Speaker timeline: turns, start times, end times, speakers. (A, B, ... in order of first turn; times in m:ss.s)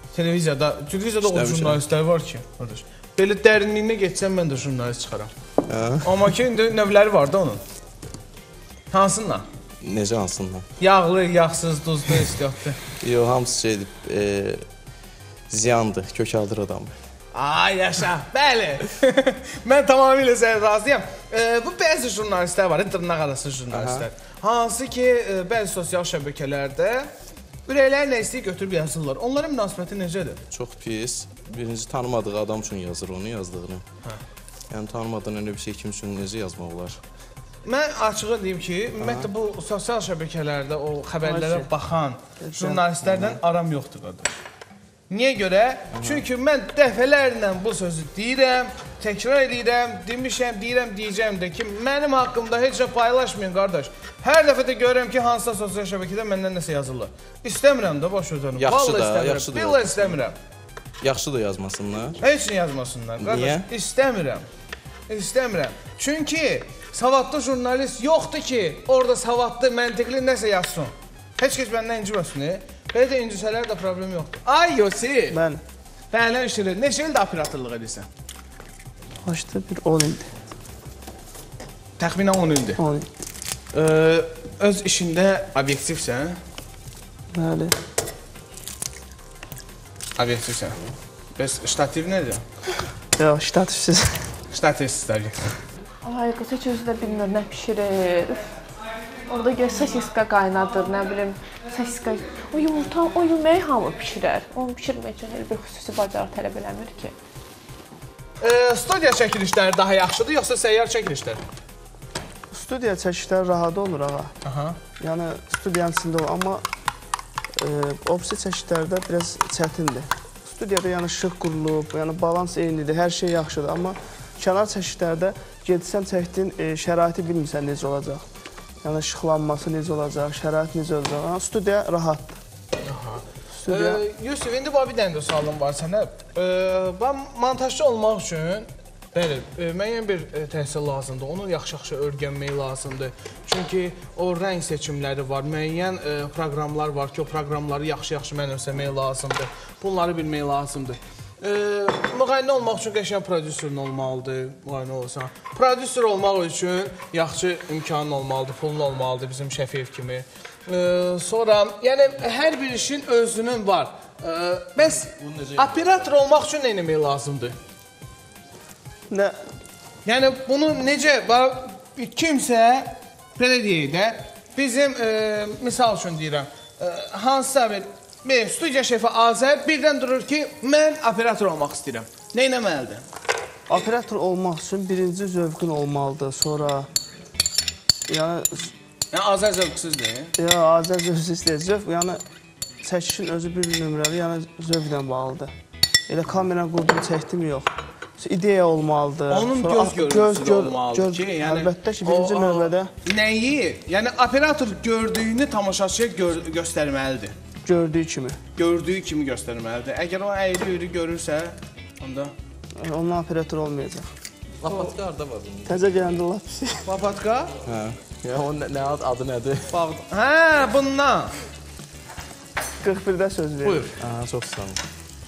0:00.1-0:05.3 A
0:01.2-0:01.8 B
0:05.7-0:06.2 B
0:06.0-0:07.6 A
0:08.9-0:09.4 A
0:09.8-0:10.6 B
0:10.8-0:12.8 A
0:13.0-0:14.6 B
0:15.5-0:16.9 B
0:17.3-0:27.1 A
0:23.7-0:24.1 B
0:27.6-0:30.4 A
0:30.5-0:33.8 B
0:34.7-0:37.0 B
0:37.6-0:44.3 A
0:39.0-0:39.3 B
0:41.2-0:41.7 C
0:42.4-0:42.8 C
0:43.0-0:43.4 B
0:45.1-1:00.4 A
0:45.9-0:46.2 B
0:58.6-1:00.2 B
1:01.0-1:02.2 B
1:02.2-1:04.4 A
1:03.2-1:03.7 B
1:05.1-1:15.4 A
1:15.3-1:15.6 C
1:16.1-1:18.1 A
1:19.2-1:20.3 C
1:22.0-1:22.8 A
1:22.8-1:23.1 C
1:23.7-1:26.4 A
1:27.3-1:27.7 C
1:30.2-1:30.8 A
1:31.4-1:32.4 A
1:33.2-1:34.3 C
1:34.5-1:35.6 A
1:36.0-1:38.4 D
1:39.3-1:47.1 D
1:48.4-1:51.4 A
1:52.5-1:54.3 C
1:54.4-1:54.8 A
1:55.0-1:56.6 C
1:57.6-2:08.2 C
2:08.8-2:12.4 C
2:12.8-2:47.6 A
2:13.6-2:14.0 C
2:45.1-2:45.7 B
2:49.1-2:49.4 C
2:50.0-3:03.0 A
3:03.7-3:06.9 C
3:08.1-3:08.7 C
3:09.1-3:10.3 A
3:10.4-3:12.2 C
3:12.8-3:15.5 C
3:16.1-3:22.9 C
3:19.3-3:27.3 A
3:27.6-3:28.4 C
3:28.6-3:32.3 A
3:32.8-3:34.1 C
3:34.6-3:35.9 B
3:35.7-3:36.9 C
3:36.8-3:37.5 A
3:37.6-3:39.8 B
3:39.7-3:41.3 A
3:42.8-3:43.9 C
3:44.0-3:44.8 B